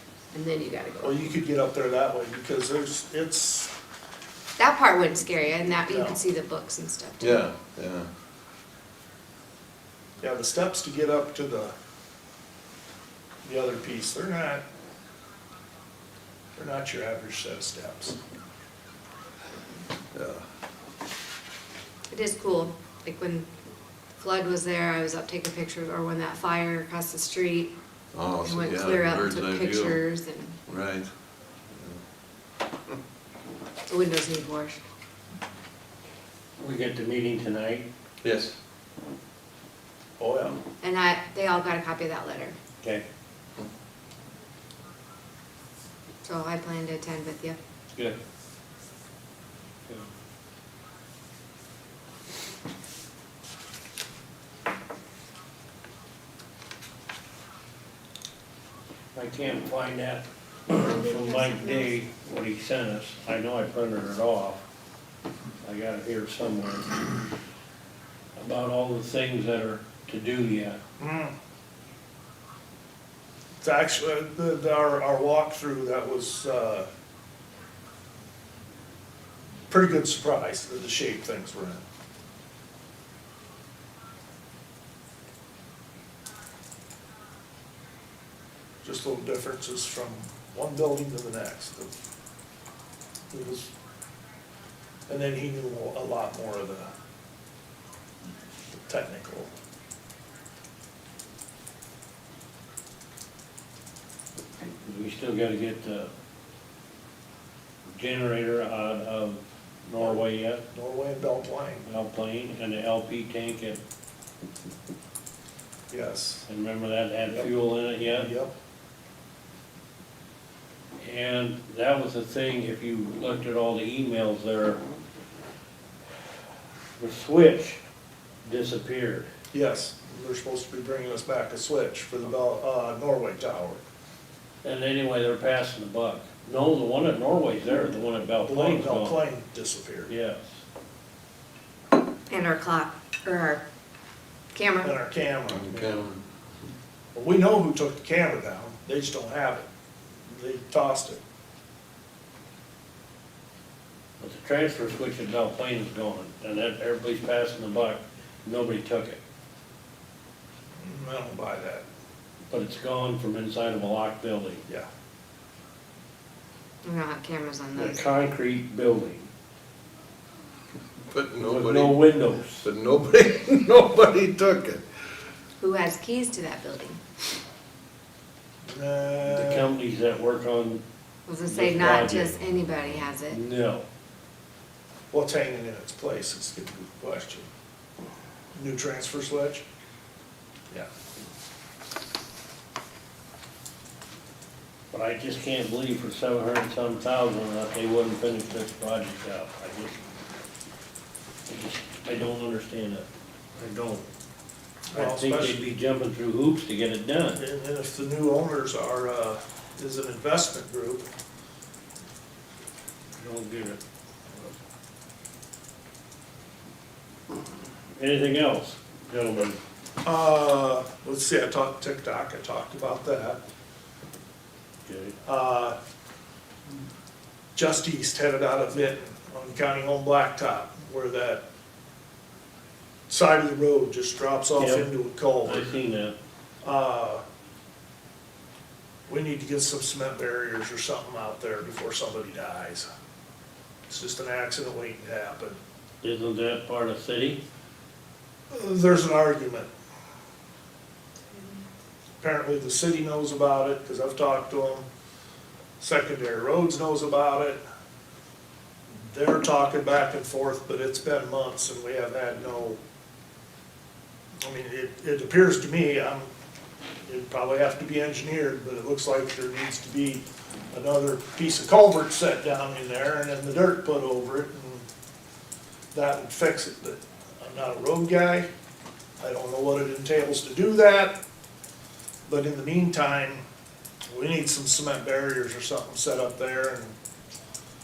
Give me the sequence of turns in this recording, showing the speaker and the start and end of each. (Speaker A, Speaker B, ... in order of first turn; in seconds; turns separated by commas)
Speaker A: 0.3-1.3, Speaker B: 1.0-3.7, Speaker A: 4.6-7.4, Speaker B: 5.9-6.2, Speaker C: 7.2-8.1, Speaker B: 10.2-11.7, Speaker B: 13.4-14.6, Speaker B: 16.6-18.2, Speaker C: 20.1-20.4, Speaker A: 22.1-23.5, Speaker A: 24.2-27.7, Speaker C: 28.1-30.0, Speaker A: 28.4-30.6, Speaker C: 30.7-31.1, Speaker A: 33.9-34.8, Speaker D: 36.6-37.9, Speaker C: 38.2-38.5, Speaker B: 40.2-40.6, Speaker A: 40.8-42.5, Speaker A: 46.2-47.6, Speaker D: 59.1-64.6, Speaker A: 60.7-61.9, Speaker D: 65.6-66.9, Speaker D: 68.3-70.8, Speaker B: 71.0-71.3, Speaker B: 73.6-76.9, Speaker B: 79.7-81.8, Speaker B: 88.8-91.9, Speaker B: 93.3-93.7, Speaker B: 95.1-96.9, Speaker B: 98.8-99.5, Speaker D: 104.8-106.1, Speaker D: 107.9-110.6, Speaker B: 110.0-111.9, Speaker D: 111.8-113.8, Speaker B: 115.9-116.5, Speaker D: 116.5-118.3, Speaker B: 118.0-118.5, Speaker D: 121.0-124.8, Speaker D: 127.0-127.8, Speaker D: 128.4-129.3, Speaker B: 129.5-133.8, Speaker D: 134.6-139.2, Speaker B: 138.4-140.1, Speaker D: 140.1-140.6, Speaker A: 142.3-143.6, Speaker A: 144.5-144.9, Speaker B: 144.8-146.1, Speaker C: 145.5-146.2, Speaker B: 147.1-149.7, Speaker B: 150.2-151.2, Speaker D: 154.2-159.2, Speaker B: 160.8-161.8, Speaker D: 162.5-164.6, Speaker A: 166.8-168.1, Speaker D: 167.8-169.3, Speaker C: 171.1-174.8, Speaker D: 171.4-172.6, Speaker A: 175.6-177.0, Speaker B: 178.6-179.7, Speaker D: 179.2-180.8, Speaker A: 181.3-183.4, Speaker D: 181.4-182.4, Speaker D: 183.3-183.8, Speaker B: 185.1-187.5, Speaker B: 188.5-189.6, Speaker D: 194.9-200.0, Speaker D: 201.5-204.1, Speaker B: 204.9-205.6, Speaker D: 204.9-207.4, Speaker B: 207.3-211.1, Speaker D: 213.2-213.8, Speaker D: 217.9-219.6, Speaker B: 220.0-223.4, Speaker D: 224.8-225.1, Speaker B: 225.2-225.8, Speaker B: 227.5-231.4, Speaker B: 233.1-235.7, Speaker D: 234.6-236.1, Speaker B: 236.6-237.2, Speaker B: 239.1-242.8, Speaker B: 243.9-245.6, Speaker D: 246.0-247.4, Speaker B: 248.5-249.7, Speaker B: 252.2-254.8, Speaker B: 255.8-257.6, Speaker B: 259.1-262.8, Speaker B: 264.4-266.3, Speaker B: 267.1-274.9, Speaker B: 275.9-278.5, Speaker B: 279.2-281.1, Speaker B: 282.3-283.4, Speaker B: 284.1-286.9